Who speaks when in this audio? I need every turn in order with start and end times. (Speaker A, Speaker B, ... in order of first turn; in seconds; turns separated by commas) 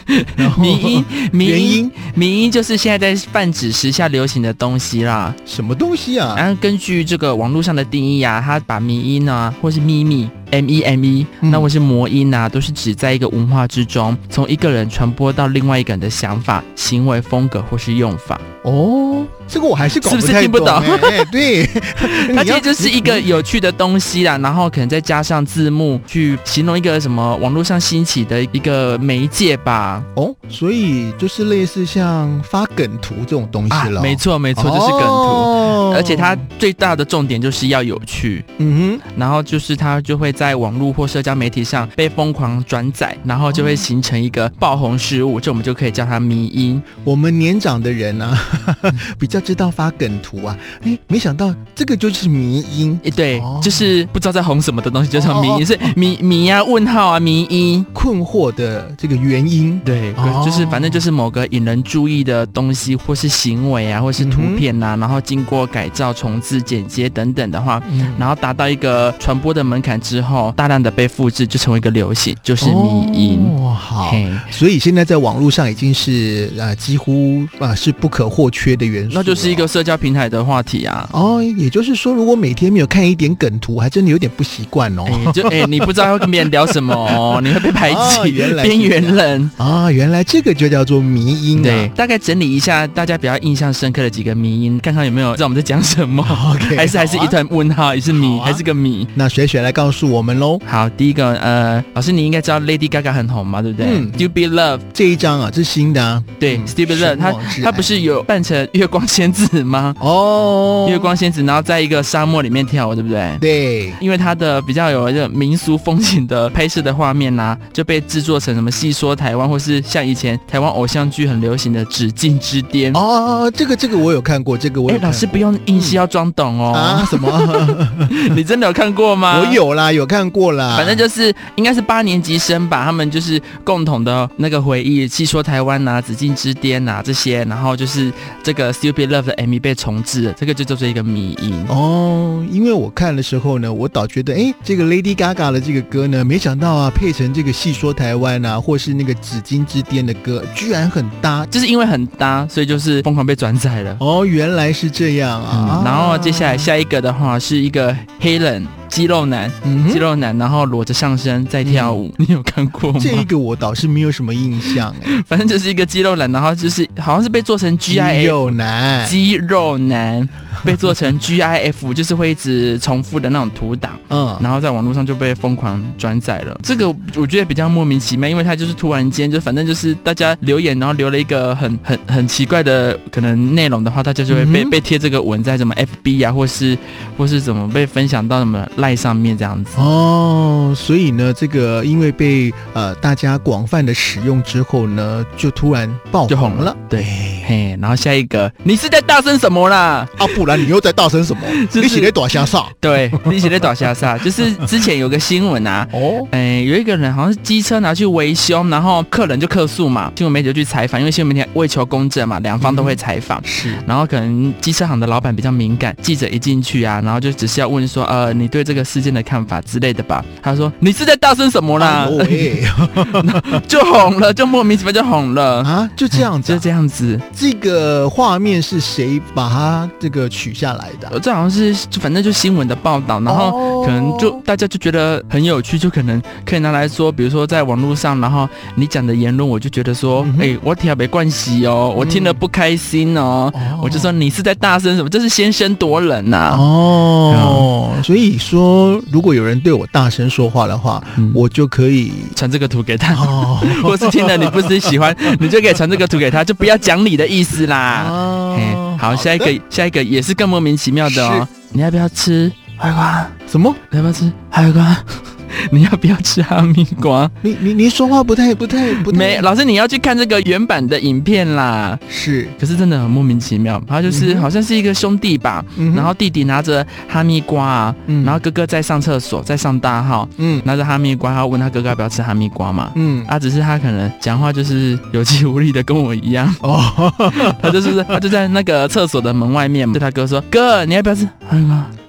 Speaker A: 0.1-5.4, Speaker B: 0.4-1.9, Speaker B: 5.5-6.4, Speaker A: 6.3-18.4, Speaker B: 11.4-11.7, Speaker B: 18.6-23.4, Speaker A: 20.0-21.3, Speaker A: 22.0-30.1, Speaker B: 30.1-36.4, Speaker A: 33.7-38.4, Speaker B: 38.6-39.0, Speaker A: 39.1-46.9, Speaker B: 43.5-43.9, Speaker B: 47.0-53.9, Speaker A: 53.0-57.9, Speaker B: 55.1-55.9, Speaker B: 57.9-61.0, Speaker A: 59.8-74.5, Speaker B: 64.2-64.6, Speaker B: 67.8-68.3, Speaker B: 72.6-79.7, Speaker A: 79.1-81.1, Speaker B: 81.1-91.9, Speaker A: 85.1-89.5, Speaker A: 91.5-99.1, Speaker B: 96.2-97.4, Speaker B: 98.1-98.6, Speaker B: 99.2-100.6, Speaker A: 100.7-104.8, Speaker B: 103.8-104.2, Speaker B: 104.9-107.9, Speaker A: 106.4-110.0, Speaker B: 110.0-111.2, Speaker A: 110.8-113.4, Speaker B: 113.4-114.0, Speaker A: 114.0-123.0, Speaker B: 122.9-126.0, Speaker A: 124.9-129.6, Speaker B: 126.7-128.3, Speaker B: 129.3-131.0, Speaker A: 130.7-141.7, Speaker B: 141.7-151.5, Speaker A: 151.5-154.0, Speaker B: 154.0-156.7, Speaker A: 155.5-163.3, Speaker B: 159.6-160.1, Speaker B: 161.6-162.0, Speaker B: 163.0-165.2, Speaker A: 164.7-189.9, Speaker B: 167.9-169.2, Speaker B: 174.1-174.4, Speaker B: 184.3-184.8, Speaker B: 189.8-197.5, Speaker A: 196.3-200.7, Speaker B: 200.2-203.9, Speaker A: 201.5-227.2, Speaker B: 205.9-206.3, Speaker B: 212.6-213.8, Speaker B: 221.8-223.8, Speaker B: 225.6-226.6, Speaker B: 227.3-231.1, Speaker A: 231.1-246.7, Speaker B: 233.2-234.4, Speaker B: 240.2-240.5, Speaker B: 241.9-242.4, Speaker B: 243.5-244.1, Speaker B: 246.5-252.3, Speaker A: 247.3-247.7, Speaker A: 251.2-251.4, Speaker A: 252.3-263.3, Speaker B: 253.1-255.8, Speaker B: 257.9-259.5, Speaker B: 261.1-261.5, Speaker B: 263.5-263.8, Speaker A: 263.9-267.3, Speaker B: 267.4-269.5, Speaker A: 268.9-272.0, Speaker B: 272.1-272.6, Speaker A: 272.6-286.6, Speaker B: 274.1-274.5, Speaker B: 275.8-276.1, Speaker B: 278.1-278.4, Speaker B: 280.4-280.6, Speaker B: 282.9-283.3, Speaker B: 286.6-288.2, Speaker A: 287.3-291.9